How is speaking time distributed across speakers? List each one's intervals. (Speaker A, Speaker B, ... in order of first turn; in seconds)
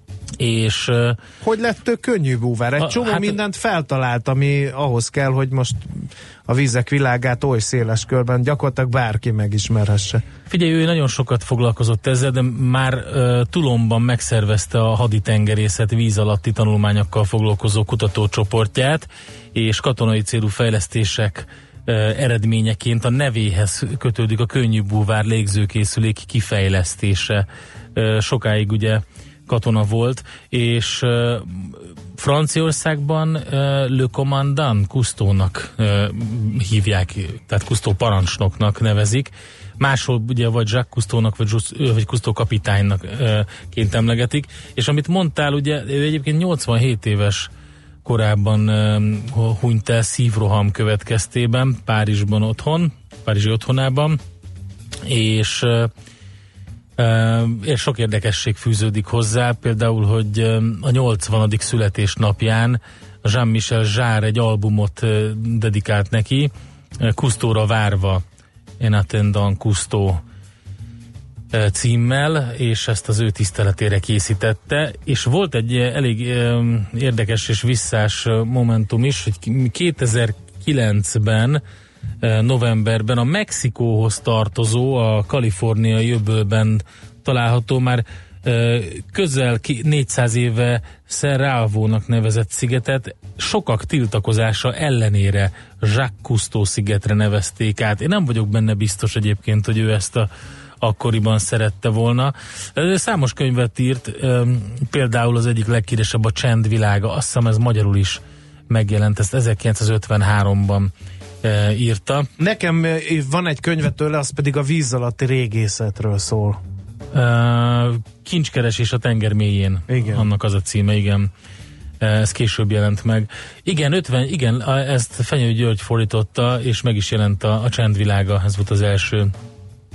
Speaker A: 0.4-1.2, 2.8-3.3, 10.5-47.5, 48.0-54.2, 55.0-55.9, 57.0-68.2, 68.8-70.2, 71.5-81.6, 82.2-100.3, 100.8-110.9, 111.4-112.3, 117.1-121.3, 122.0-129.3
Speaker B: 1.4-10.2, 112.4-116.6, 119.9-120.3